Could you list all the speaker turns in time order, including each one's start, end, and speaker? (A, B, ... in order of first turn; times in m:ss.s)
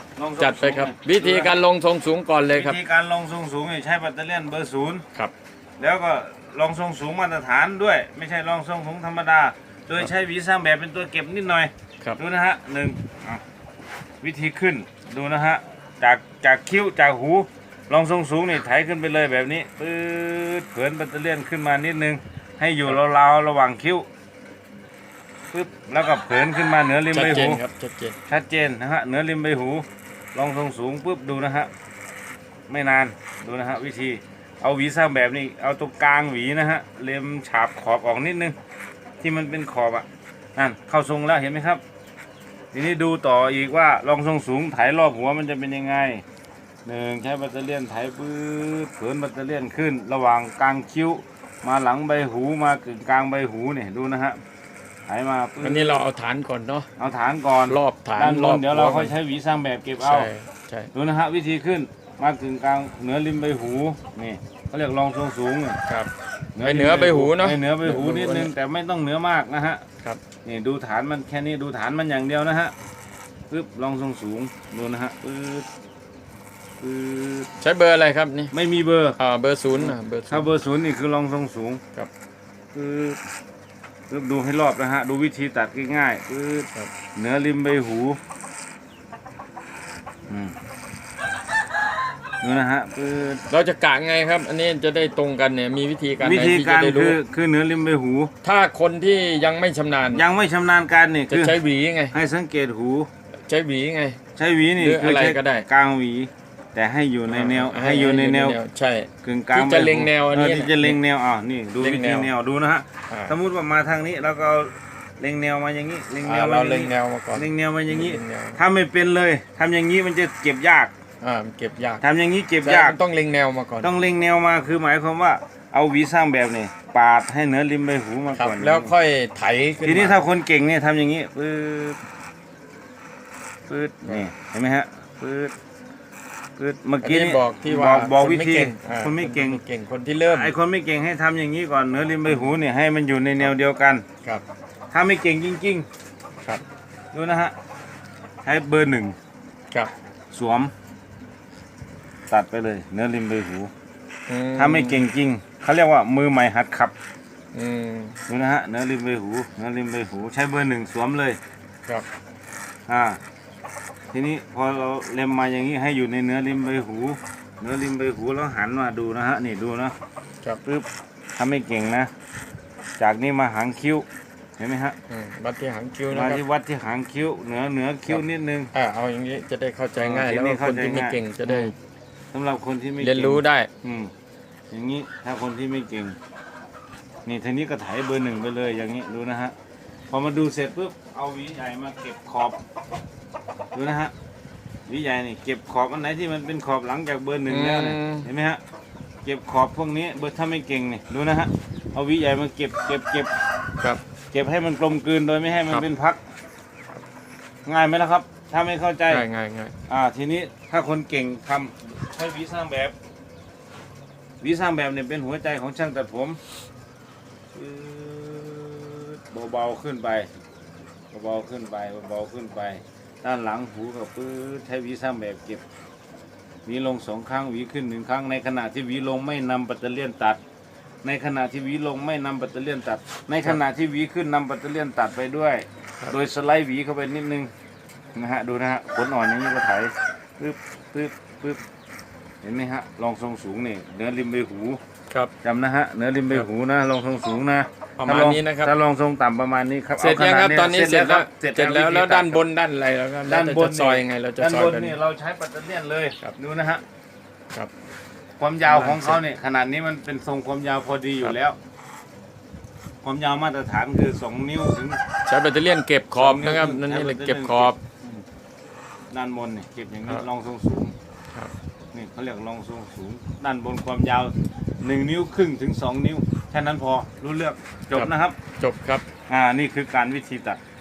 0:00.2-0:01.6 A
0:00.4-0:02.8 B
0:02.5-0:05.0 A
0:05.8-0:13.4 A
0:14.2-0:24.0 A
0:25.5-0:27.6 A
0:27.1-0:28.2 B
0:28.3-0:31.7 A
0:32.7-0:38.6 A
0:39.2-0:41.8 A
0:42.7-0:46.2 A
0:46.8-0:54.4 A
0:55.1-0:56.0 A
0:55.6-0:56.9 B
0:57.0-1:00.3 A
0:57.7-0:59.1 B
1:00.0-1:00.9 B
1:00.9-1:05.8 A
1:05.9-1:08.5 B
1:06.6-1:09.8 A
1:10.4-1:12.7 A
1:13.5-1:15.7 A
1:16.8-1:17.5 A
1:17.6-1:18.5 B
1:18.5-1:19.2 A
1:19.2-1:20.5 B
1:19.7-1:21.8 A
1:22.7-1:23.2 A
1:24.1-1:28.2 A
1:30.3-1:30.6 A
1:32.4-1:33.4 A
1:33.5-1:37.2 B
1:36.2-1:38.3 A
1:38.4-1:40.2 B
1:40.1-1:41.6 A
1:41.3-1:42.1 B
1:42.1-1:43.1 A
1:43.5-1:44.2 B
1:44.4-1:48.6 A
1:44.8-1:45.6 B
1:47.3-1:51.0 B
1:49.2-2:00.9 A
1:51.8-1:52.3 B
1:53.1-1:53.3 B
1:56.2-1:58.6 B
2:01.2-2:02.0 B
2:02.0-2:03.0 A
2:02.6-2:03.9 B
2:03.8-2:08.9 A
2:08.3-2:10.2 B
2:09.8-2:12.0 A
2:13.7-2:15.5 A
2:16.6-2:19.6 A
2:17.0-2:20.5 B
2:20.3-2:24.0 A
2:24.9-2:25.9 A
2:27.1-2:27.5 A
2:28.4-2:29.2 A
2:30.3-2:30.7 A
2:32.3-2:33.7 A
2:34.3-2:35.0 B
2:34.5-2:36.9 A
2:37.5-2:38.2 B
2:38.3-2:41.4 A
2:42.9-2:43.2 A
2:44.1-2:49.9 A
2:50.6-2:52.1 A
2:53.0-2:54.0 A
2:54.6-2:55.0 A
2:55.1-2:56.4 B
2:56.1-2:58.7 A
2:58.7-3:01.7 B
3:00.0-3:01.7 A
3:02.3-3:04.1 A
3:03.0-3:03.7 B
3:04.7-3:06.2 A
3:07.2-3:09.5 A
3:10.1-3:12.6 A
3:13.7-3:14.1 A
3:14.9-3:18.6 A
3:17.5-3:18.3 B
3:19.2-3:23.3 A
3:24.3-3:26.2 A
3:27.6-3:29.2 A
3:29.1-3:29.7 B
3:29.9-3:33.0 A
3:34.4-3:36.4 A
3:37.5-3:40.3 A
3:41.1-3:45.6 A
3:46.6-3:50.4 A
3:51.0-3:57.5 A
3:58.1-4:01.6 A
4:02.4-4:04.8 A
4:05.4-4:12.4 A
4:08.0-4:08.7 B
4:10.0-4:15.0 B
4:13.2-4:16.8 A
4:18.4-4:21.6 A
4:18.6-4:19.2 B
4:23.0-4:25.0 A
4:25.2-4:27.8 B
4:26.1-4:28.2 A
4:29.1-4:30.9 A
4:31.9-4:38.4 A
4:37.9-4:39.1 B
4:39.3-4:40.6 A